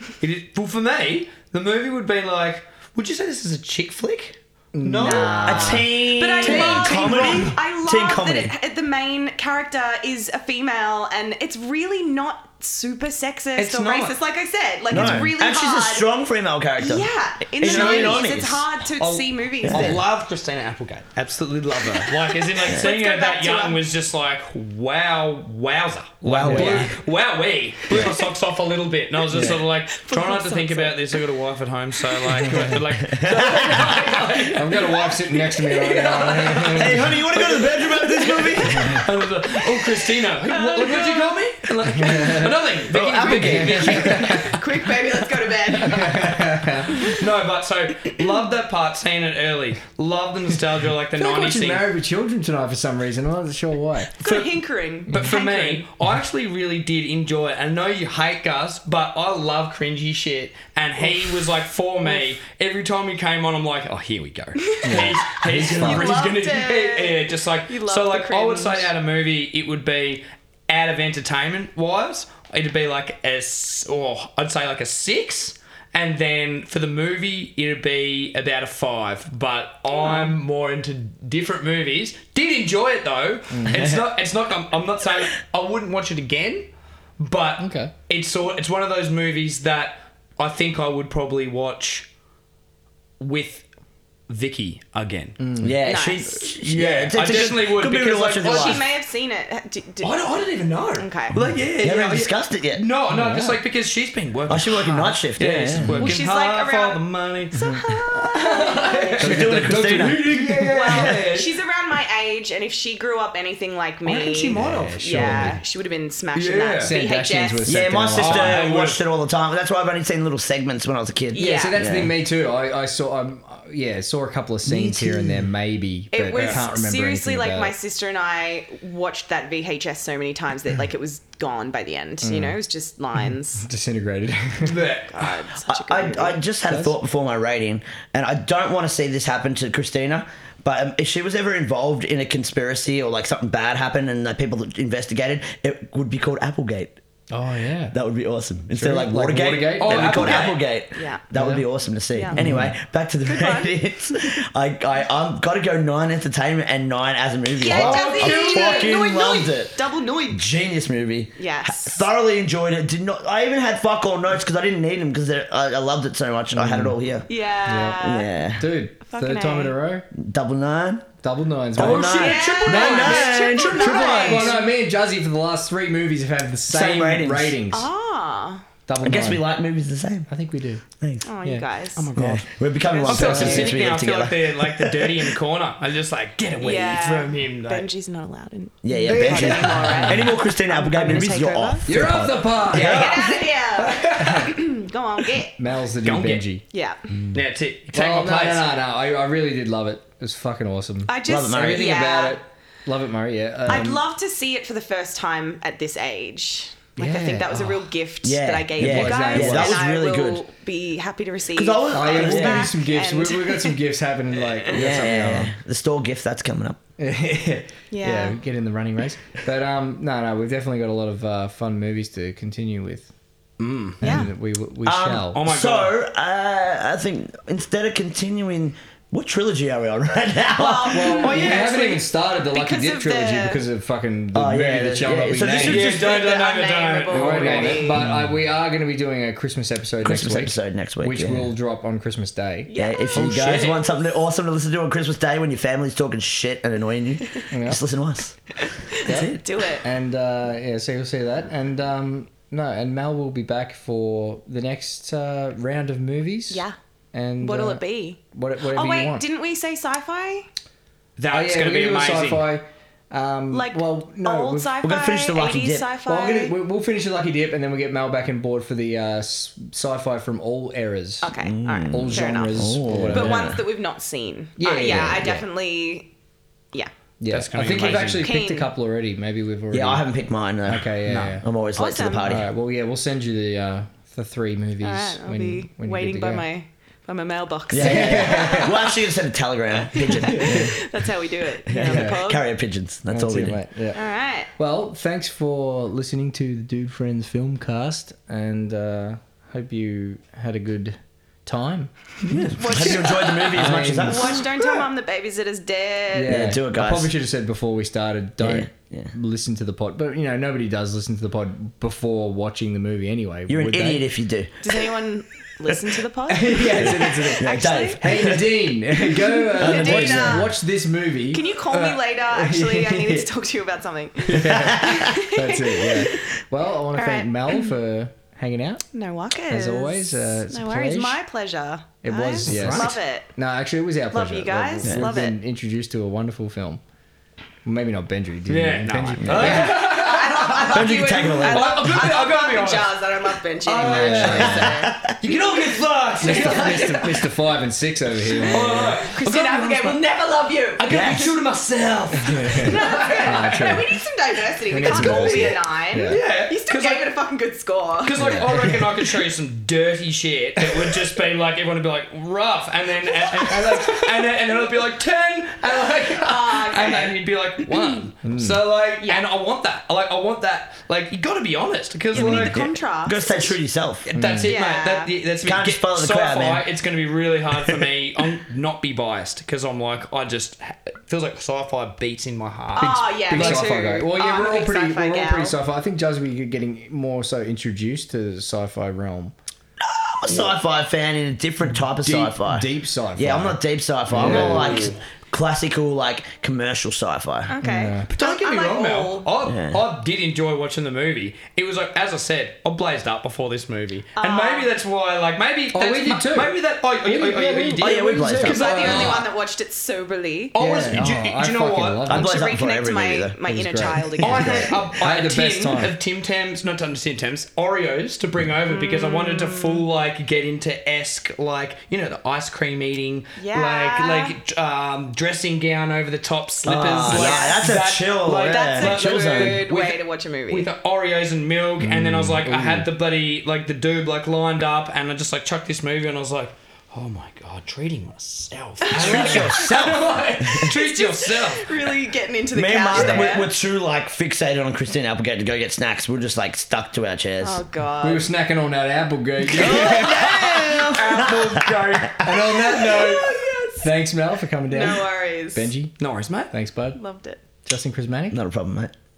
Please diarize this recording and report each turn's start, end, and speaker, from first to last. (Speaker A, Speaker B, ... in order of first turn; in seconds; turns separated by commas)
Speaker A: 0.2-7.5, Speaker B: 4.7-5.9, Speaker C: 5.0-16.1, Speaker D: 5.5-8.5, Speaker A: 13.6-14.2, Speaker D: 14.9-18.6, Speaker B: 15.0-15.2, Speaker C: 16.8-20.0, Speaker A: 17.6-51.8, Speaker D: 19.6-20.0, Speaker C: 22.1-23.8, Speaker D: 26.2-26.9, Speaker B: 26.3-26.9, Speaker B: 29.3-29.6, Speaker C: 29.4-31.0, Speaker B: 32.4-32.9, Speaker D: 33.0-33.9, Speaker B: 33.8-37.5, Speaker D: 36.7-39.1, Speaker B: 38.6-39.1, Speaker C: 40.5-41.4, Speaker B: 41.9-44.6, Speaker D: 42.9-44.2, Speaker C: 43.8-46.3, Speaker B: 45.8-47.0, Speaker B: 51.1-54.1, Speaker C: 54.2-55.9, Speaker A: 54.2-92.1, Speaker C: 61.0-61.5, Speaker C: 62.0-62.4, Speaker C: 64.6-68.9, Speaker B: 64.8-66.2, Speaker B: 83.5-84.0, Speaker D: 83.7-84.0, Speaker B: 87.6-87.9, Speaker A: 93.2-93.6, Speaker A: 94.3-95.4, Speaker B: 95.4-95.8, Speaker D: 95.6-98.8, Speaker C: 95.8-96.6, Speaker A: 96.6-98.9, Speaker C: 98.4-100.1, Speaker A: 100.0-111.5, Speaker C: 101.0-101.3, Speaker D: 101.3-102.8, Speaker B: 103.1-103.6, Speaker D: 104.5-106.0, Speaker B: 105.7-106.1, Speaker C: 106.0-109.5, Speaker D: 109.2-110.3, Speaker B: 109.2-111.1, Speaker C: 110.6-117.7, Speaker A: 114.0-115.5, Speaker B: 114.5-115.6, Speaker A: 116.3-116.9, Speaker B: 116.8-118.7, Speaker D: 117.6-122.1, Speaker A: 118.1-119.0, Speaker C: 121.3-121.8, Speaker B: 121.3-127.7, Speaker A: 124.6-125.5, Speaker C: 126.1-133.7, Speaker A: 126.3-126.6, Speaker B: 132.2-132.6, Speaker B: 133.2-134.9, Speaker A: 134.6-135.3, Speaker C: 135.0-136.4, Speaker D: 135.7-146.9, Speaker B: 136.6-136.9, Speaker B: 147.3-147.9, Speaker D: 147.9-159.8, Speaker B: 148.7-150.5, Speaker A: 149.8-150.6, Speaker C: 150.9-151.2, Speaker B: 151.3-151.6, Speaker C: 152.1-152.4, Speaker B: 152.3-152.8, Speaker C: 153.2-153.8, Speaker C: 157.6-160.4, Speaker A: 157.7-158.9, Speaker D: 160.3-167.3, Speaker C: 161.4-162.0, Speaker B: 166.5-167.0, Speaker C: 167.3-168.3, Speaker B: 167.7-168.0, Speaker D: 168.0-168.7, Speaker B: 168.6-170.1, Speaker C: 169.0-169.8, Speaker D: 170.1-171.1, Speaker B: 171.2-172.3, Speaker D: 171.7-174.4, Speaker A: 171.8-174.6, Speaker C: 172.1-174.6, Speaker B: 173.8-177.9, Speaker D: 176.7-177.6, Speaker C: 177.7-178.6, Speaker B: 178.9-179.5, Speaker D: 179.0-180.3, Speaker B: 180.3-180.8, Speaker C: 181.2-182.1, Speaker A: 181.9-182.5, Speaker D: 182.1-185.3, Speaker C: 182.9-183.8, Speaker A: 183.0-187.9, Speaker B: 183.1-183.8, Speaker C: 186.6-191.9, Speaker D: 188.8-193.3, Speaker A: 189.0-190.3, Speaker B: 189.9-190.3, Speaker B: 191.8-193.3, Speaker C: 192.7-195.6, Speaker A: 192.8-193.2, Speaker A: 193.8-194.5, Speaker B: 194.0-194.6, Speaker B: 195.6-196.6, Speaker A: 196.0-196.4, Speaker C: 196.7-197.1, Speaker A: 197.3-198.7, Speaker B: 197.9-204.0, Speaker C: 201.1-202.4, Speaker D: 201.2-201.9, Speaker C: 203.7-213.8, Speaker B: 207.0-207.9, Speaker D: 208.2-210.4, Speaker B: 208.8-209.8, Speaker D: 211.5-212.7, Speaker B: 211.9-215.5, Speaker D: 214.7-216.8, Speaker B: 217.0-223.1, Speaker C: 217.9-218.4, Speaker A: 223.6-224.0, Speaker B: 224.0-225.4, Speaker C: 224.0-224.3, Speaker D: 224.8-231.4, Speaker A: 225.3-225.9, Speaker C: 230.5-231.8, Speaker B: 230.9-235.8, Speaker A: 231.2-232.0, Speaker C: 232.4-233.6, Speaker D: 234.3-236.1, Speaker A: 235.6-238.1, Speaker C: 235.6-238.0, Speaker B: 237.1-243.6, Speaker D: 240.0-241.5, Speaker C: 242.7-243.8, Speaker D: 242.8-249.4, Speaker A: 243.2-243.8, Speaker B: 247.5-247.8, Speaker C: 248.6-249.8, Speaker B: 249.0-259.2, Speaker C: 256.5-256.8, Speaker C: 257.4-260.5, Speaker A: 261.2-262.5, Speaker B: 261.3-264.7, Speaker C: 263.5-266.5, Speaker D: 264.8-265.9, Speaker B: 266.1-271.3, Speaker C: 271.2-276.1, Speaker D: 271.4-273.6, Speaker B: 271.9-273.5, Speaker B: 274.6-275.4, Speaker D: 274.9-275.2, Speaker B: 277.2-280.0, Speaker A: 277.3-278.2, Speaker C: 277.6-278.7, Speaker D: 279.7-282.5, Speaker B: 280.6-281.4, Speaker C: 281.8-282.3, Speaker B: 282.2-286.4, Speaker C: 284.8-289.0, Speaker D: 287.7-290.8, Speaker B: 287.8-288.8, Speaker C: 289.9-292.5, Speaker B: 290.2-290.8, Speaker D: 291.6-293.6, Speaker B: 291.8-292.2, Speaker B: 293.1-294.0, Speaker C: 293.9-294.5, Speaker B: 294.6-303.0, Speaker D: 302.3-304.4, Speaker C: 302.5-306.4, Speaker B: 303.5-304.4, Speaker B: 306.1-314.0, Speaker D: 306.3-307.1, Speaker D: 308.4-309.1, Speaker D: 313.5-314.5, Speaker C: 314.6-318.0, Speaker B: 316.3-323.3, Speaker D: 317.4-318.5, Speaker C: 319.3-320.6, Speaker D: 319.6-320.5, Speaker C: 321.3-326.4, Speaker D: 324.3-325.1, Speaker B: 324.3-328.8, Speaker C: 326.9-327.7, Speaker C: 328.9-333.3, Speaker B: 329.5-331.2, Speaker B: 332.0-336.8, Speaker A: 332.4-332.9, Speaker C: 334.1-335.4, Speaker D: 334.8-335.1, Speaker B: 337.6-339.9, Speaker A: 338.5-340.6, Speaker D: 339.2-339.8, Speaker C: 339.3-345.5, Speaker D: 340.4-342.1, Speaker A: 341.4-343.0, Speaker A: 343.7-344.6, Speaker B: 343.8-344.8, Speaker D: 343.8-345.1, Speaker A: 345.2-347.2, Speaker B: 346.2-349.0, Speaker C: 346.3-347.0, Speaker A: 348.4-350.0, Speaker C: 348.5-350.9, Speaker A: 350.8-353.9, Speaker D: 350.9-351.3, Speaker B: 352.2-354.0, Speaker C: 352.6-358.4, Speaker B: 354.7-356.2, Speaker A: 354.9-357.1, Speaker A: 358.0-372.6, Speaker B: 358.1-359.1, Speaker C: 363.1-364.0, Speaker C: 366.1-367.9, Speaker B: 368.2-368.6, Speaker C: 372.1-373.6, Speaker D: 372.1-374.1, Speaker A: 374.1-383.7, Speaker B: 374.1-374.5, Speaker C: 374.4-375.1, Speaker D: 375.4-376.6, Speaker C: 382.8-385.6, Speaker B: 382.8-389.3, Speaker D: 389.8-397.5, Speaker B: 391.9-394.9, Speaker A: 394.1-394.9, Speaker C: 397.5-399.3, Speaker B: 397.6-398.1, Speaker A: 398.1-409.3, Speaker D: 399.4-399.8, Speaker C: 404.1-404.7, Speaker B: 405.7-409.3, Speaker D: 407.8-408.7, Speaker C: 408.4-410.6, Speaker A: 410.5-412.1, Speaker B: 410.6-412.3, Speaker D: 412.1-413.4, Speaker C: 412.1-414.7, Speaker B: 413.4-416.0, Speaker A: 414.2-441.7, Speaker C: 418.7-419.8, Speaker C: 423.4-424.4, Speaker D: 426.6-429.6, Speaker C: 426.9-427.8, Speaker C: 428.4-430.7, Speaker B: 431.8-432.8, Speaker D: 432.5-432.8, Speaker C: 438.8-439.8, Speaker D: 438.9-440.7, Speaker C: 440.6-443.5, Speaker D: 442.5-447.6, Speaker A: 442.9-443.3, Speaker C: 447.4-448.3, Speaker B: 448.0-450.4, Speaker D: 449.4-452.3, Speaker A: 449.5-452.4, Speaker B: 452.2-455.9, Speaker C: 452.5-453.9, Speaker C: 454.7-455.7, Speaker A: 456.0-456.5, Speaker B: 456.5-457.0, Speaker C: 456.9-457.4, Speaker B: 457.6-458.4, Speaker D: 458.3-458.9